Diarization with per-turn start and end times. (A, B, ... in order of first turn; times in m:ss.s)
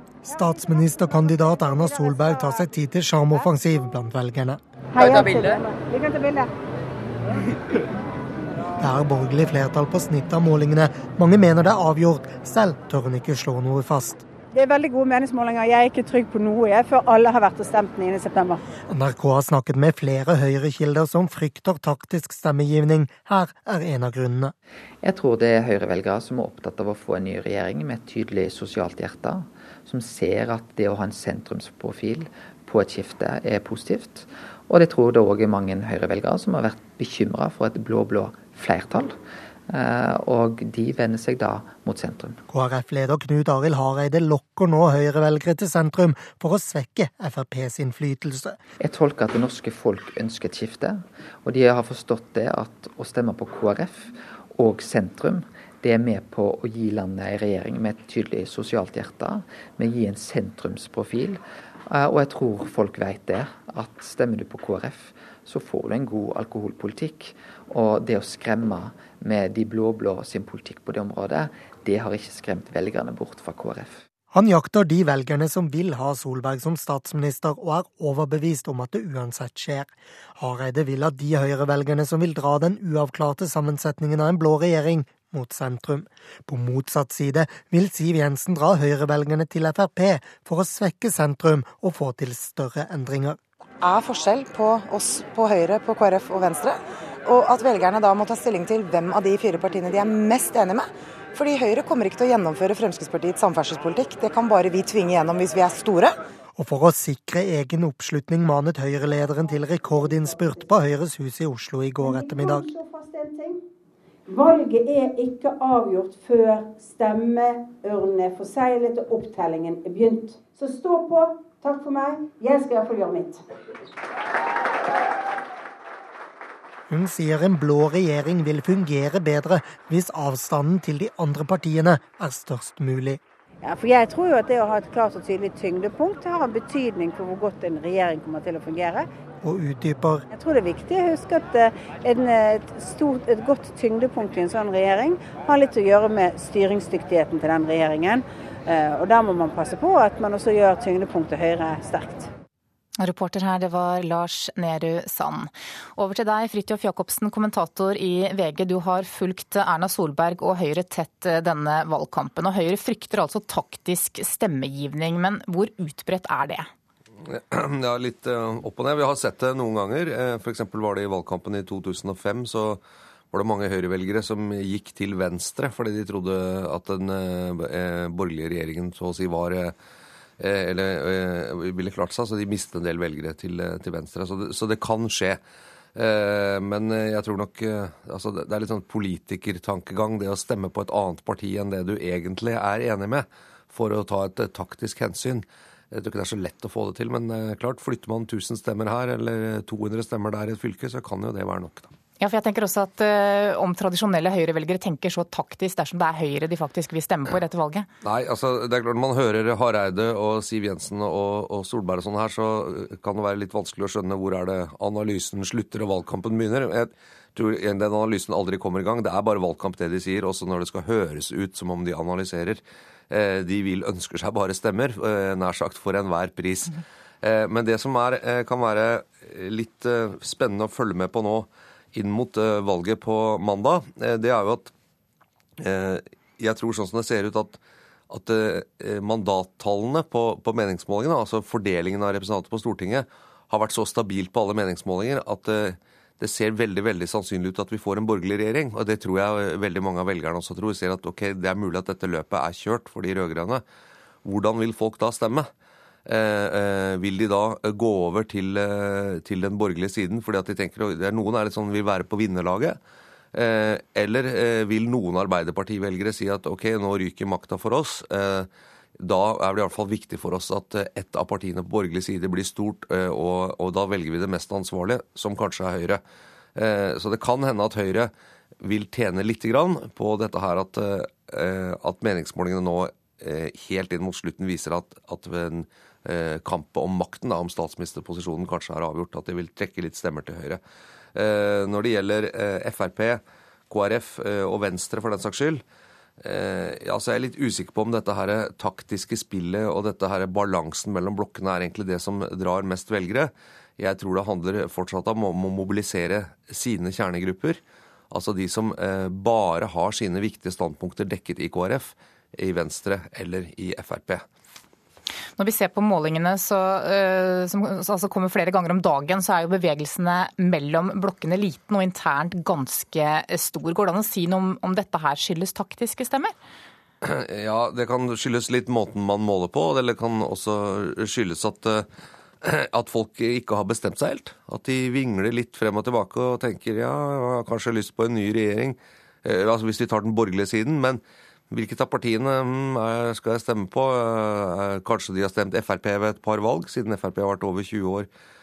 0:00.2-0:04.6 A
0:01.8-0:02.7 B
0:04.9-0:06.5 B
0:08.8-0:14.2 A
0:14.5-0:18.6 B
0:18.9-0:24.5 A
0:25.0-0:39.2 C
0:39.7-0:42.4 C
0:42.5-0:48.6 A
0:48.8-1:14.0 C
1:14.3-1:33.4 A
1:33.8-1:46.1 D
1:46.6-1:52.6 A
1:50.1-1:50.7 B
1:52.0-1:53.6 B
1:54.3-2:03.4 B
2:06.9-2:13.2 A
2:13.6-2:19.1 B
2:19.4-2:20.2 A
2:20.3-2:32.3 B
2:33.0-2:46.7 E
2:47.3-2:52.8 F
2:53.3-2:59.7 F
3:00.4-3:05.4 F
3:06.0-3:21.9 F
3:22.2-3:27.9 E
3:28.0-3:54.7 F
3:55.6-3:57.6 F
3:58.1-4:13.6 F
4:14.2-4:15.5 F
4:16.1-4:22.8 F
4:23.3-4:28.5 F
4:29.0-4:36.0 F
4:36.6-4:38.1 F
4:38.6-4:50.6 F
4:51.2-4:55.6 F
4:56.2-5:07.6 F
5:08.1-5:14.2 F
5:15.4-5:26.3 E
5:27.0-5:31.9 F
5:32.4-5:48.1 F